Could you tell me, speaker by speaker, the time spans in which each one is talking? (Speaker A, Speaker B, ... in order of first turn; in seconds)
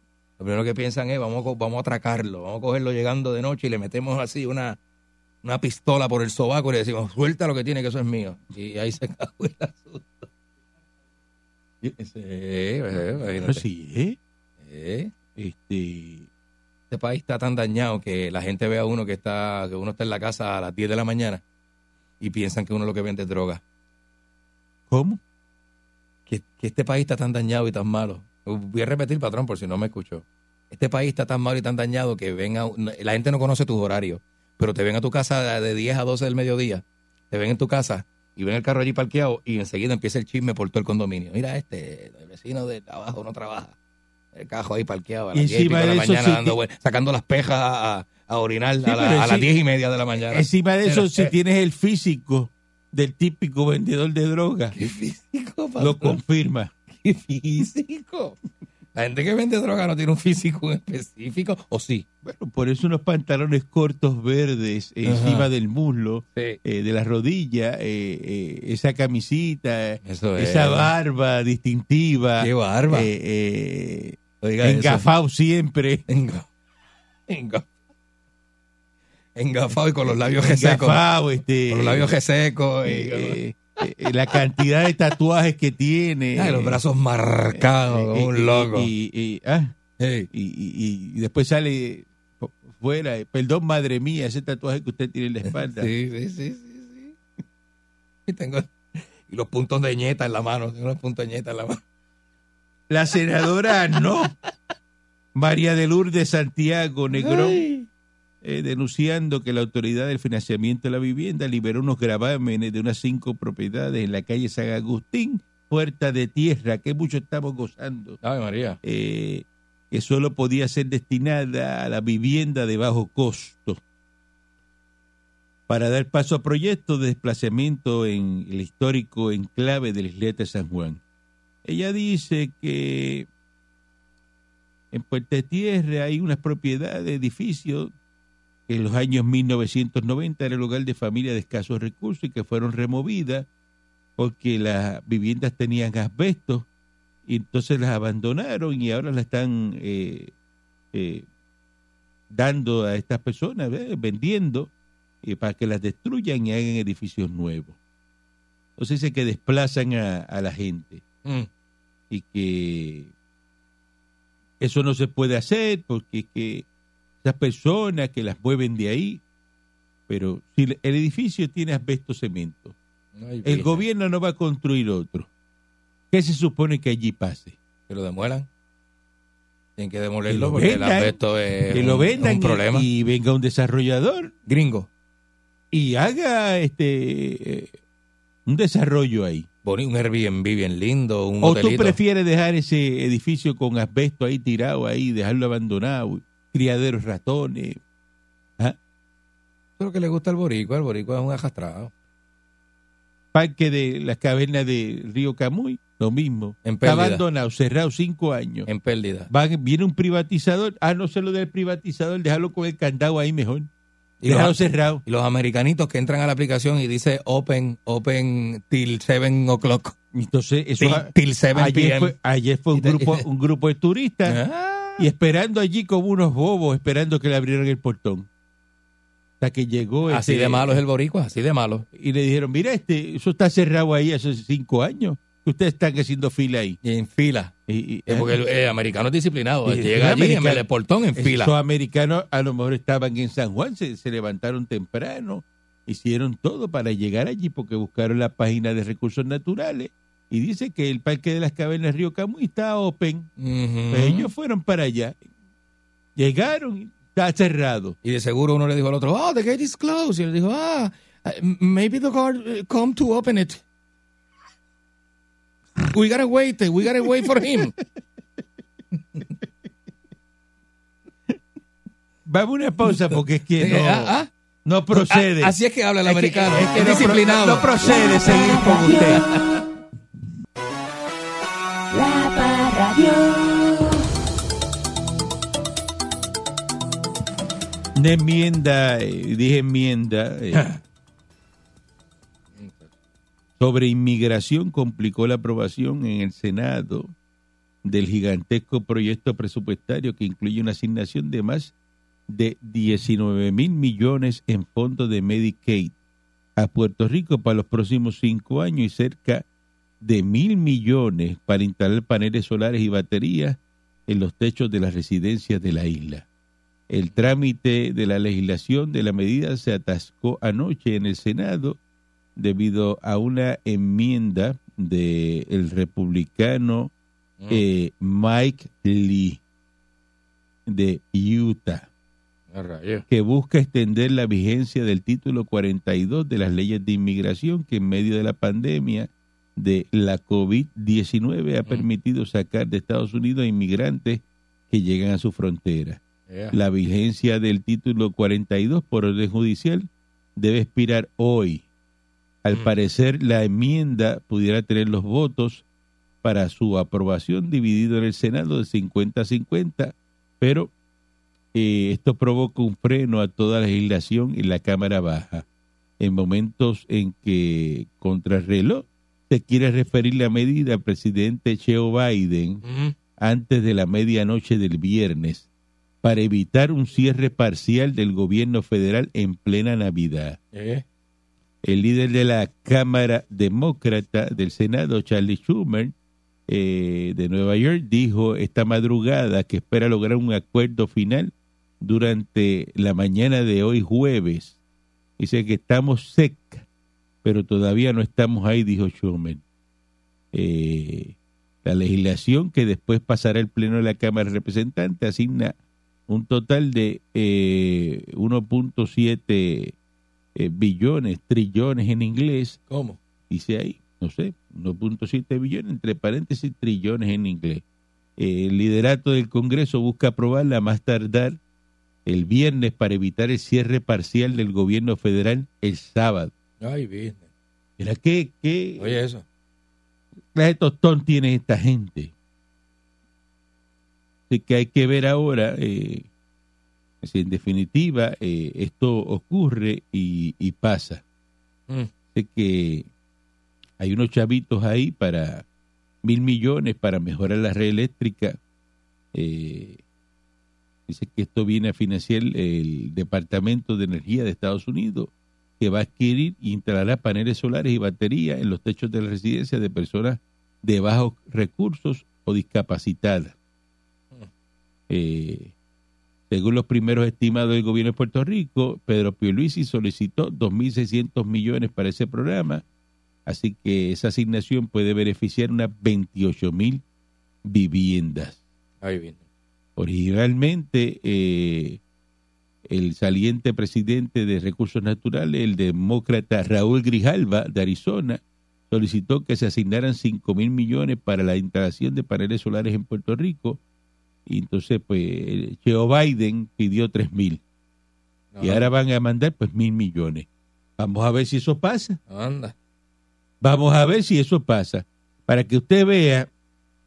Speaker A: 0.4-4.8, 5.4-10.3, 11.8-13.6, 14.6-15.1, 16.9-21.4, 22.2-23.6, 26.3-43.8, 44.3-51.3, 54.7-56.2, 56.9-58.4, 58.9-62.0, 65.0-65.5, 70.0-70.9, 72.4-73.1, 74.4-75.0, 76.1-76.5, 77.3-77.7, 79.3-81.0, 81.7-83.4, 86.3-88.9, 90.0-90.3, 95.4-97.1, 98.3-101.8, 107.1-107.9, 118.2-118.8, 173.1-173.8, 177.9-178.5, 179.8-182.9, 184.5-184.9, 189.6-192.0, 199.8-201.9, 206.6-207.2, 208.7-209.3, 214.2-219.9, 220.8-222.1, 222.7-223.2, 224.2-225.1, 230.1-231.8, 236.8-237.5, 238.1-241.5, 253.4-254.3, 258.0-263.6, 265.8-267.7, 272.9-274.3, 274.9-277.7, 290.5-290.8, 292.6-292.9, 332.5-333.0, 346.3-346.6, 372.6-372.9, 380.5-380.8, 412.7-413.0, 426.6-427.2, 428.8-429.2, 478.8-479.2, 498.3-498.7, 502.1-502.5
Speaker B: 13.4-14.2, 15.3-16.3, 24.9-25.2, 45.3-46.6, 48.8-49.5, 50.3-54.7, 55.8-56.7, 62.2-76.1, 80.0-82.1, 82.8-86.8, 87.5-89.7, 90.3-95.9, 102.9-104.3, 105.3-107.6, 108.4-118.2, 118.8-123.8, 125.7-131.0, 131.6-133.3, 134.9-137.9, 138.7-143.5, 144.2-146.7, 147.2-150.3, 150.9-151.3, 152.3-154.7, 155.2-157.8, 158.8-161.0, 162.1-163.1, 164.6-166.7, 167.2-169.2, 170.1-172.8, 173.4-175.3, 176.1-177.6, 180.3-181.2, 181.7-184.3, 185.7-187.7, 188.4-189.5, 191.4-197.8, 203.3-208.7, 209.3-213.7, 214.2-215.0, 220.1-224.4, 225.0-228.3, 229.4-230.8, 231.9-236.8, 237.7-238.4, 239.7-240.6, 241.2-253.3, 253.9-255.2, 256.1-257.9, 272.2-279.3, 287.9-290.7, 293.6-297.1, 297.8-301.7, 302.3-305.9, 306.6-309.4, 310.0-316.2, 316.9-321.8, 322.4-326.9, 327.5-329.4, 330.7-331.9, 333.1-346.0, 346.5-351.6, 352.4-355.6, 356.2-360.7, 361.5-365.4, 366.0-372.6, 373.2-375.5, 376.0-380.4, 381.6-385.9, 386.5-394.6, 395.2-396.6, 397.2-399.4, 400.3-405.6, 406.1-409.7, 410.4-412.6, 413.3-417.6, 418.2-421.4, 422.1-426.3, 427.8-429.0, 430.3-432.1, 434.3-436.1, 437.0-441.0, 442.1-442.9, 443.8-445.4, 446.0-448.4, 449.1-449.8, 450.9-463.3, 464.9-465.5, 466.3-472.6, 473.2-476.8, 477.4-478.4, 479.8-481.8, 482.7-493.6, 494.2-497.4, 498.4-500.3, 500.8-502.0, 503.4-506.3
Speaker C: 277.8-279.4, 281.9-284.0